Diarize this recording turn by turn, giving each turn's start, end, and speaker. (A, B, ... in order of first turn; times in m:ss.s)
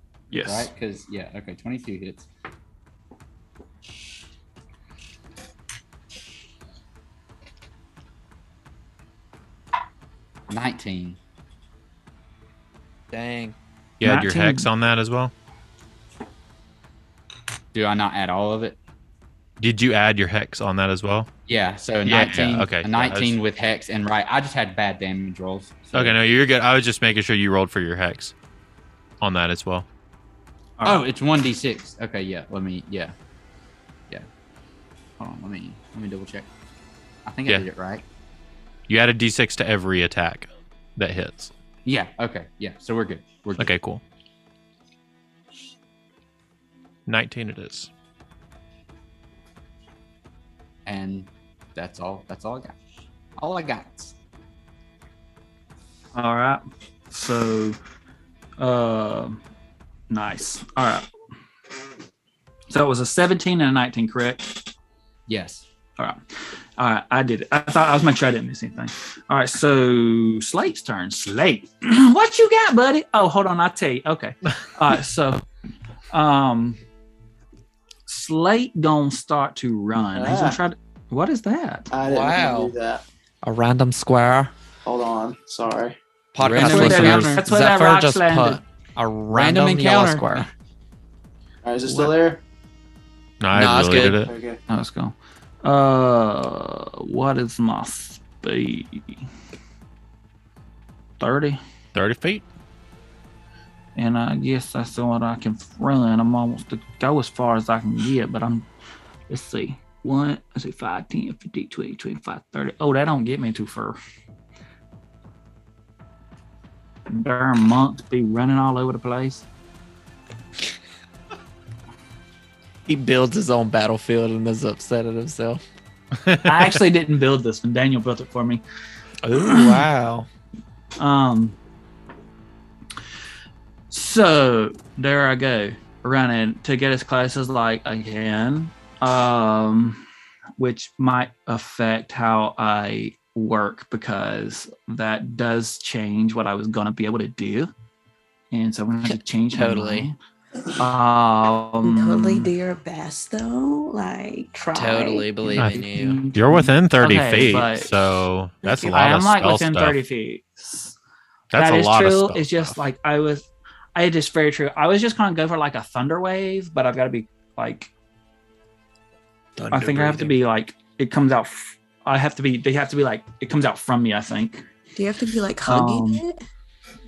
0:00.3-0:00.7 A
0:00.4-0:02.3 B
0:10.5-0:11.2 B
0:13.1-0:13.6 C
0:14.0-0:15.3 D
0:14.0-0:14.7 A
0:17.7-0:18.8 B
0:19.6-0:21.3 D
0:21.5-0:26.2 B
0:22.0-0:23.4 D
0:25.9-0:28.3 D
0:29.2-0:29.9 D
0:30.8-0:31.1 A
0:30.8-0:33.2 B
0:35.2-0:36.5 B
0:37.3-0:38.0 B
0:38.9-0:41.5 D
0:41.8-0:43.8 B
0:43.6-0:44.0 D
0:47.1-0:47.9 D
0:50.9-0:52.8 B
0:53.4-0:54.2 B
0:56.2-0:57.8 A
0:58.6-0:59.4 A
1:00.1-1:01.1 A
1:02.7-1:04.6 A
1:05.3-1:05.6 B
1:06.8-1:15.4 A
1:16.1-1:16.8 A
1:18.1-1:21.9 A
1:20.2-1:20.6 E
1:21.9-1:23.0 E
1:22.0-1:22.7 C
1:23.4-1:24.5 C
1:24.8-1:26.0 E
1:26.4-1:30.5 C
1:26.4-1:27.5 B
1:26.5-1:28.6 A
1:29.3-1:30.5 B
1:31.6-1:32.4 E
1:33.4-1:34.3 D
1:33.5-1:34.2 C
1:34.0-1:34.6 E
1:34.7-1:39.2 A
1:41.2-1:41.6 A
1:42.0-1:42.4 D
1:44.0-1:48.7 A
1:49.3-1:54.0 A
1:57.1-1:59.5 A
2:02.9-2:05.6 C
2:06.2-2:06.8 D
2:06.4-2:08.6 A
2:09.2-2:10.3 C
2:09.3-2:09.8 A
2:11.0-2:11.6 A
2:13.9-2:20.0 A
2:20.6-2:27.7 A
2:28.5-2:30.2 A
2:29.5-2:30.1 C
2:30.8-2:32.5 A
2:31.8-2:35.3 F
2:34.7-2:36.3 C
2:35.4-2:37.9 A
2:36.3-2:40.0 D
2:38.6-2:39.0 F
2:38.9-2:41.0 A
2:41.5-2:42.8 D
2:41.5-2:47.9 A
2:49.7-2:54.6 A
2:49.7-2:50.3 C
2:55.0-2:56.4 F
2:55.7-2:56.2 A